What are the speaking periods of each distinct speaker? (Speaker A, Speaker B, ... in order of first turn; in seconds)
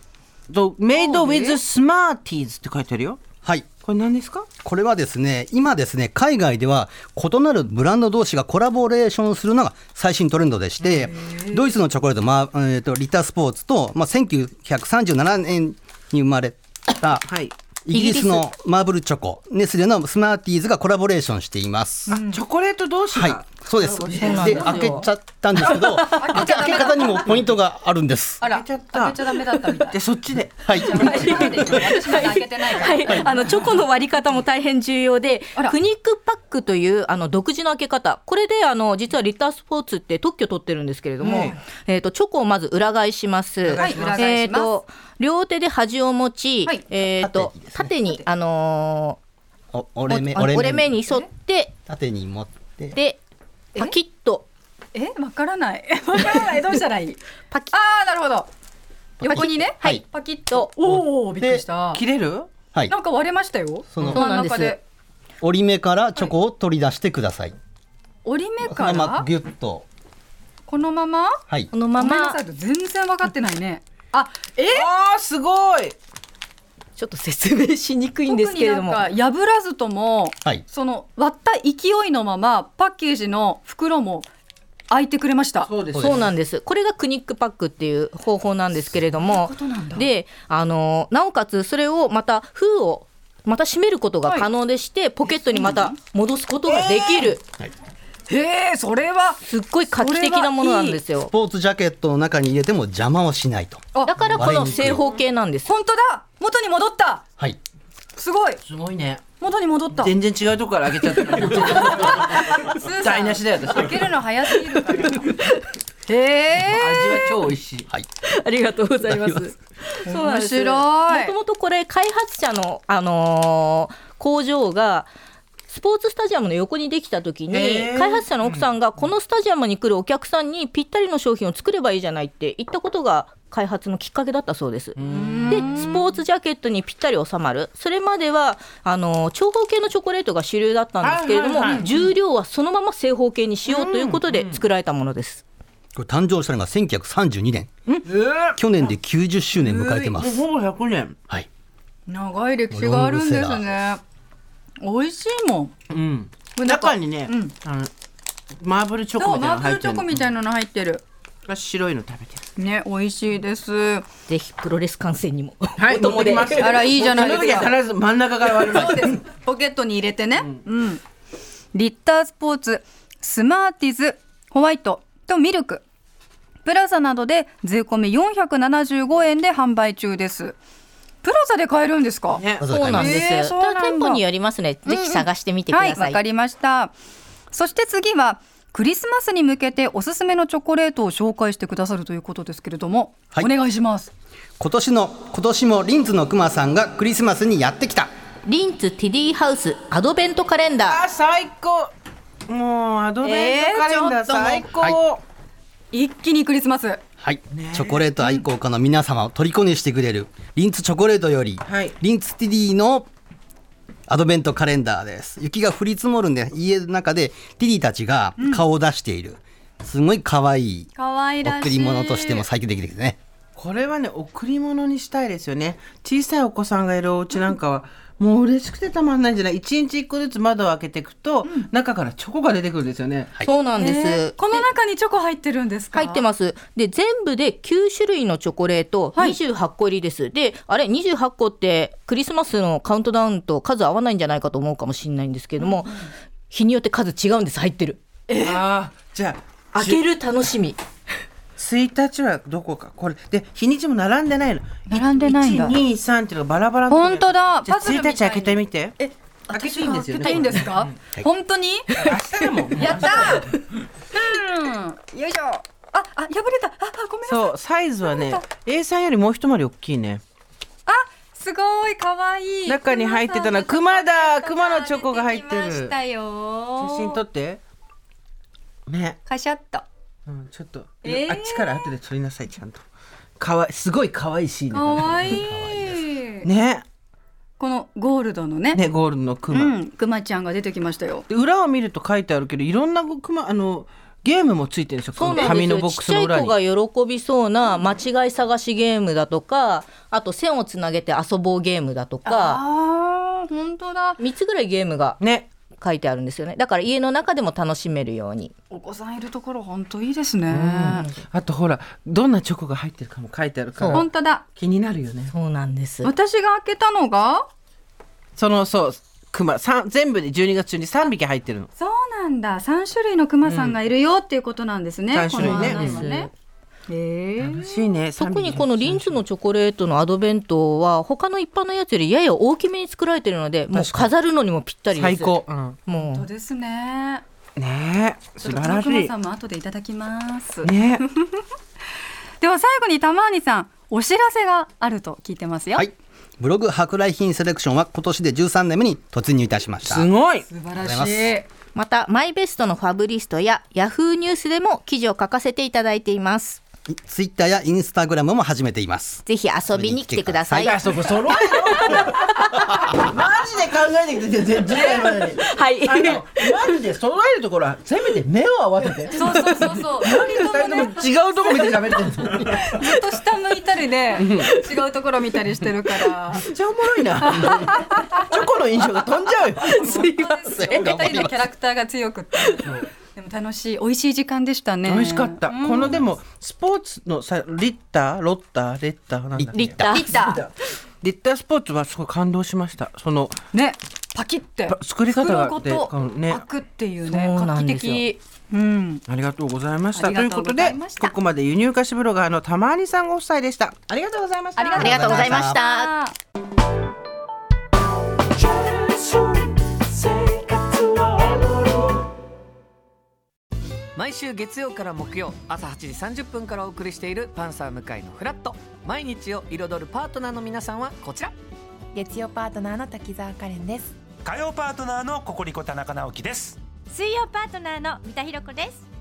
Speaker A: 0.5-3.2, 3.8-4.5, 17.2-17.5, 22.3-25.0, 28.4-31.5, 41.2-41.6, 43.7-44.3, 61.9-62.5, 74.7-76.0, 85.6-86.3, 96.7-97.3, 108.6-109.2, 109.9-114.1, 116.6-117.9, 127.5-128.7, 135.0-135.9, 141.0-142.1, 143.7-144.7, 148.1-148.6, 150.1-151.2, 155.9-157.9, 158.6-160.1, 161.5-162.5, 165.8-169.2, 182.3-182.7, 200.8-201.9, 202.5-205.2, 207.5-208.1, 211.7-212.0, 223.6-233.3, 248.3-250.0, 251.6-259.0, 259.5-260.9, 262.0-263.5, 267.3-270.2, 272.7-276.0, 276.8-277.6, 278.9-279.2, 280.3-282.8, 283.4-285.4, 286.4-286.9, 288.7-289.8, 291.3-296.6, 305.2-305.5, 310.5-315.3, 318.4-321.7, 323.4-323.8, 325.1-326.1, 327.4-329.2, 333.7-334.1, 334.9-335.8, 337.6-339.1, 340.6-341.1, 349.8-350.5, 360.6-372.7, 374.1-374.5, 376.4-380.0, 384.9-390.5, 391.0-393.4, 394.7-396.4, 399.1-405.2
Speaker B: 0.9-1.6, 10.9-11.7, 22.1-22.4, 26.2-27.3, 28.4-30.0, 30.8-33.7, 41.3-41.6, 43.8-44.7, 54.9-57.2, 57.7-58.5, 59.2-62.0, 62.9-64.8, 68.2-69.3, 70.7-71.4, 72.0-74.9, 78.3-84.3, 84.9-85.7, 89.2-90.1, 94.2-94.5, 95.2-96.0, 98.3-101.0, 105.7-107.2, 108.2-108.6, 109.4-110.1, 111.5-115.4, 116.1-117.2, 120.1-121.3, 135.1-136.0, 149.6-150.1, 152.1-154.0, 154.8-155.7, 156.6-157.5, 159.2-161.0, 162.6-164.1, 166.6-167.8, 168.6-171.0, 171.7-175.8, 176.7-180.6, 181.2-184.2, 184.9-186.9, 187.5-194.1, 205.9-207.0, 218.4-218.6, 221.0-222.5, 233.8-236.3, 245.6-246.1, 248.3-248.6, 254.9-255.8, 256.9-262.0, 262.8-263.5, 264.1-268.4, 270.9-277.2, 279.3-279.9, 281.0-281.9, 284.7-286.5, 287.6-288.8, 289.5-291.2, 295.2-295.6, 302.2-304.2, 308.7-311.1, 313.9-314.4, 316.0-317.5, 321.8-326.3, 326.9-328.0, 335.9-337.2, 338.4-341.4, 342.4-345.9, 350.4-351.5, 364.7-365.2, 369.1-371.9, 372.5-376.4, 377.2-378.1, 379.7-386.0, 389.9-390.4, 393.5-399.0, 399.9-401.2, 404.6-406.1
Speaker C: 4.6-17.3, 17.9-22.2, 23.1-28.4, 30.6-31.9, 33.0-33.3, 47.0-47.9, 49.7-51.0, 51.9-53.0, 59.2-60.0, 60.8-61.6, 63.9-64.2, 65.4-67.5, 68.6-69.9, 86.0-86.2, 101.3-105.0, 119.1-119.5, 145.9-147.7, 148.6-150.4, 152.7-153.7, 182.6-183.2, 194.6-198.1, 207.2-213.1, 214.1-220.9, 221.4-223.2, 285.1-286.1, 345.8-350.1, 350.8-351.4, 356.9-360.7, 380.5-381.4, 389.4-389.9, 404.8-405.6
Speaker D: 17.9-18.5, 24.2-27.0, 30.9-49.2, 50.1-51.8, 52.9-53.2, 53.8-54.5, 59.3-60.7, 64.0-64.8, 71.7-72.4, 77.0-79.1, 86.0-97.4, 99.5-101.3, 104.1-105.7, 114.9-115.5, 118.2-125.1, 125.7-145.4, 164.3-166.8, 182.7-186.2, 198.5-201.0, 203.2-204.7, 233.4-234.7, 235.9-246.0, 246.5-248.0, 249.8-250.8, 295.2-302.6, 304.2-305.2, 305.7-308.5, 310.9-311.2, 313.8-314.1, 315.3-316.1, 325.4-326.3, 328.2-336.3, 351.7-356.6, 359.3-360.8, 361.3-362.6, 365.2-366.8, 369.3-369.7, 370.2-370.9, 379.5-380.4, 389.5-390.4, 397.1-398.1, 404.8-405.9
Speaker E: 413.9-421.3
Speaker F: 421.9-423.9, 426.9-428.9
Speaker G: 424.2-426.6